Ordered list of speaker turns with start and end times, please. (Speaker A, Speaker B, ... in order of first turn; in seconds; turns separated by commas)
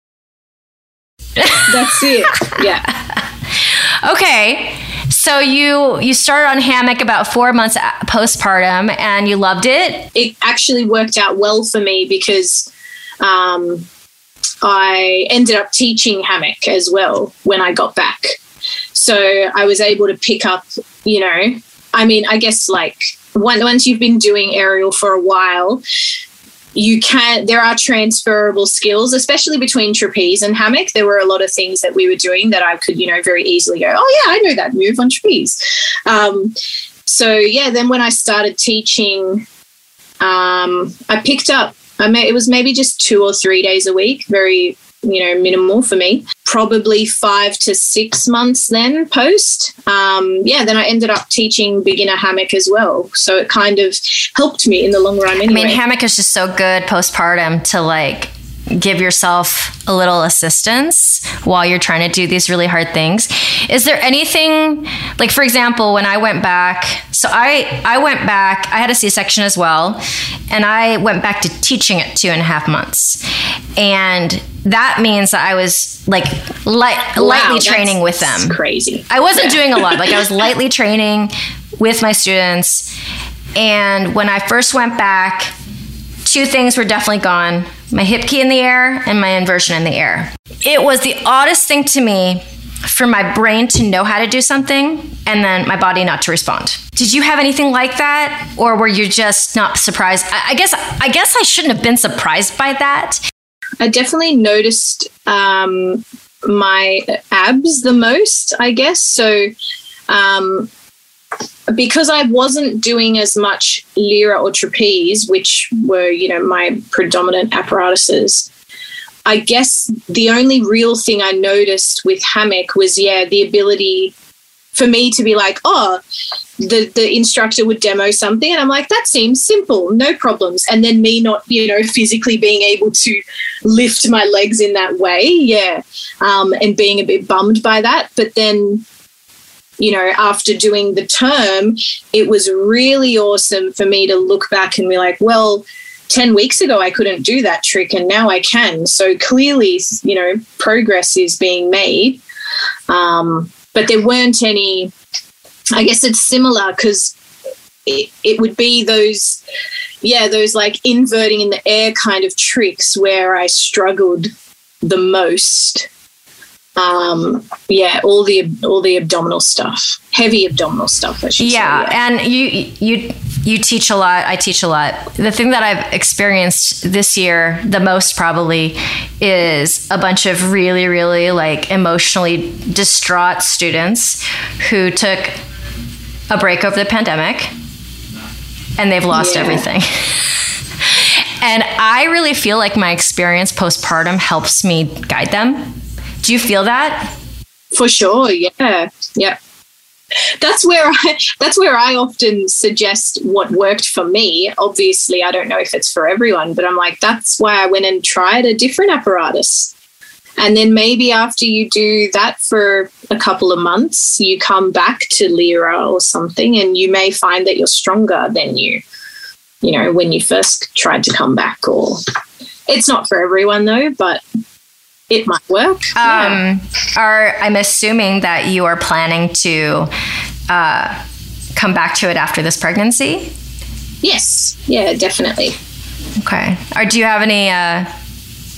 Speaker A: 1.4-1.7, Speaker B: 1.6-2.9, Speaker A: 3.1-10.1, Speaker B: 10.1-12.7, Speaker B: 13.2-13.8, Speaker B: 14.6-18.4, Speaker B: 18.9-25.8, Speaker B: 26.7-36.5, Speaker B: 37.0-39.5, Speaker B: 40.2-55.8, Speaker A: 55.5-73.2, Speaker A: 73.8-78.6, Speaker B: 77.2-80.2, Speaker A: 79.1-82.9, Speaker A: 83.5-85.5, Speaker A: 86.2-103.2, Speaker B: 103.8-109.5, Speaker B: 110.1-110.7, Speaker B: 111.7-118.5, Speaker B: 119.2-124.1, Speaker B: 124.7-126.0, Speaker B: 126.6-138.8, Speaker B: 139.8-152.2, Speaker B: 152.9-154.9, Speaker B: 155.7-157.1, Speaker B: 157.8-159.4, Speaker B: 160.0-164.3, Speaker B: 164.8-165.9, Speaker B: 166.8-172.0, Speaker A: 171.4-185.4, Speaker A: 186.3-187.5, Speaker A: 188.8-197.1, Speaker B: 189.1-189.7, Speaker B: 197.7-199.4, Speaker B: 200.4-209.7, Speaker B: 210.4-218.8, Speaker B: 219.6-222.0, Speaker B: 222.7-224.2, Speaker B: 225.1-226.4, Speaker A: 226.0-229.9, Speaker A: 230.5-231.0, Speaker A: 231.6-233.3, Speaker B: 234.0-235.6, Speaker A: 236.2-237.9